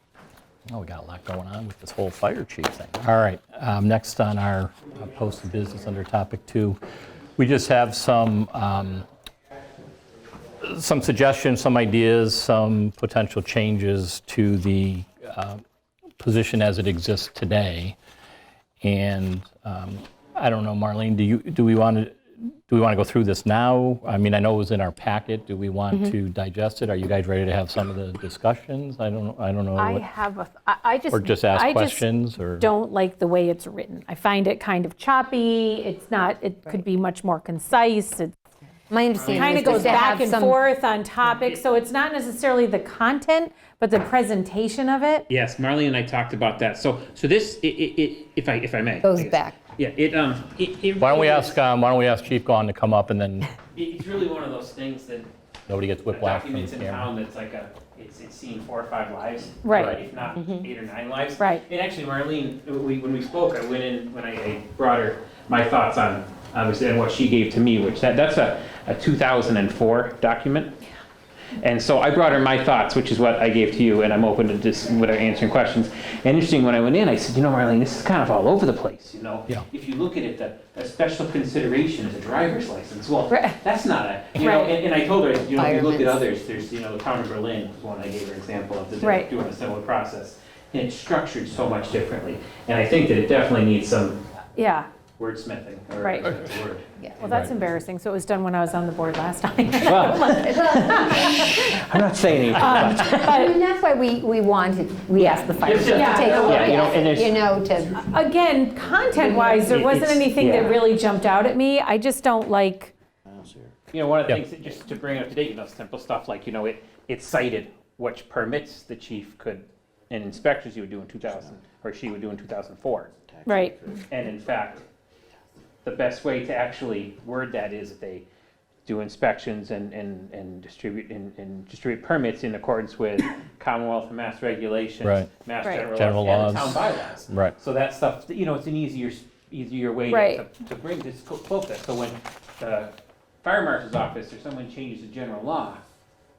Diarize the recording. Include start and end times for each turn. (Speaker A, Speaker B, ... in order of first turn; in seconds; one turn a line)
Speaker A: 0.7-6.8
Speaker A: 7.4-9.1
Speaker A: 10.6-15.6
Speaker A: 16.2-18.0
Speaker A: 18.8-30.1
Speaker B: 29.8-32.1
Speaker A: 31.1-32.7
Speaker B: 32.6-38.4
Speaker C: 38.9-40.6
Speaker D: 39.1-40.2
Speaker B: 39.3-45.3
Speaker D: 45.3-51.6
Speaker C: 49.0-49.6
Speaker A: 51.0-53.5
Speaker D: 53.7-55.3
Speaker A: 55.7-57.1
Speaker D: 56.1-70.8
Speaker B: 59.6-60.0
Speaker C: 60.4-60.7
Speaker D: 71.6-94.2
Speaker B: 83.3-83.6
Speaker B: 84.3-84.8
Speaker C: 85.6-86.2
Speaker B: 89.0-89.3
Speaker B: 94.6-94.9
Speaker D: 95.2-96.9
Speaker B: 96.0-96.4
Speaker B: 97.2-101.7
Speaker A: 97.2-97.5
Speaker D: 99.8-103.3
Speaker C: 100.3-101.4
Speaker B: 102.5-103.6
Speaker C: 102.8-108.1
Speaker D: 105.2-107.4
Speaker B: 105.8-106.8
Speaker B: 108.0-112.9
Speaker C: 109.2-109.7
Speaker D: 109.6-110.9
Speaker D: 113.9-123.1
Speaker B: 123.5-123.8
Speaker D: 124.1-124.9
Speaker D: 125.8-128.2
Speaker D: 128.9-145.8
Speaker A: 135.0-135.3
Speaker A: 135.9-137.5
Speaker B: 140.1-140.4